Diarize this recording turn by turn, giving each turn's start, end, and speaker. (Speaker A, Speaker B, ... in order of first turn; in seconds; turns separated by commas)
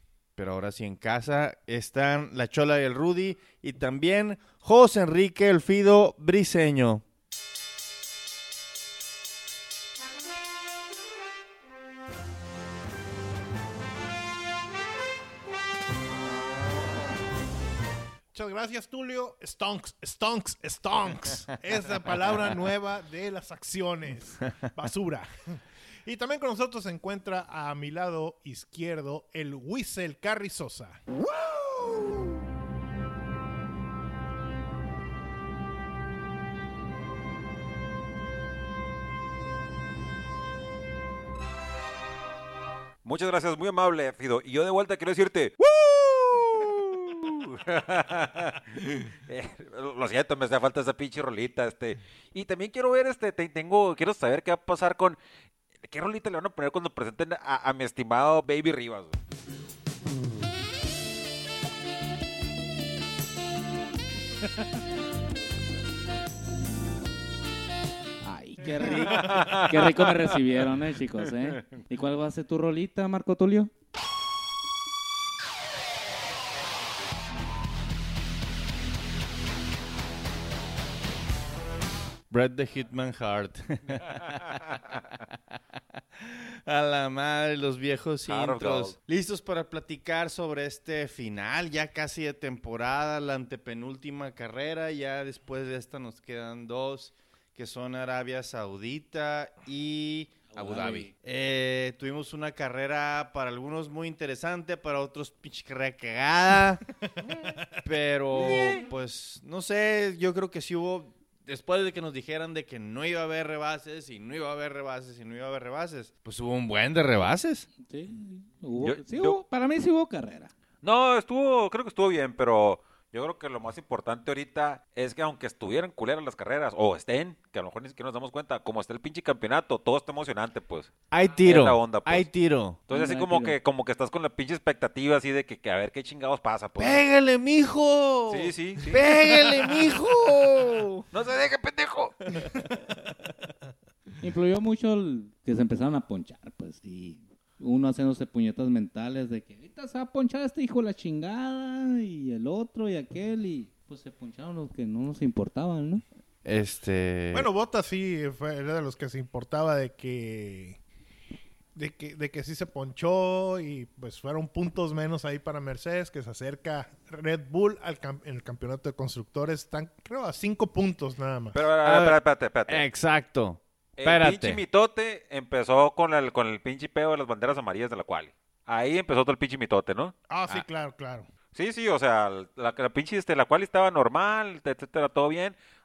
Speaker A: 0.3-7.0, Speaker B: 18.3-31.1, Speaker C: 43.0-55.2, Speaker C: 55.9-59.2, Speaker D: 68.2-73.7, Speaker C: 68.8-70.4, Speaker A: 82.3-84.6, Speaker C: 84.3-85.0, Speaker A: 86.2-117.7, Speaker C: 88.3-88.9, Speaker D: 100.5-101.1, Speaker D: 108.3-108.8, Speaker C: 108.4-108.8, Speaker D: 117.8-120.5, Speaker C: 118.8-119.4, Speaker C: 120.8-132.3, Speaker A: 131.1-132.8, Speaker C: 132.9-137.0, Speaker D: 132.9-133.6, Speaker A: 136.8-141.1, Speaker C: 138.3-139.4, Speaker C: 141.1-142.4, Speaker D: 144.2-156.0, Speaker A: 156.4-157.5, Speaker B: 157.3-160.8, Speaker B: 161.8-171.6, Speaker C: 171.5-172.8, Speaker A: 171.8-174.6, Speaker C: 174.0-180.1, Speaker B: 180.3-181.2, Speaker C: 181.5-185.6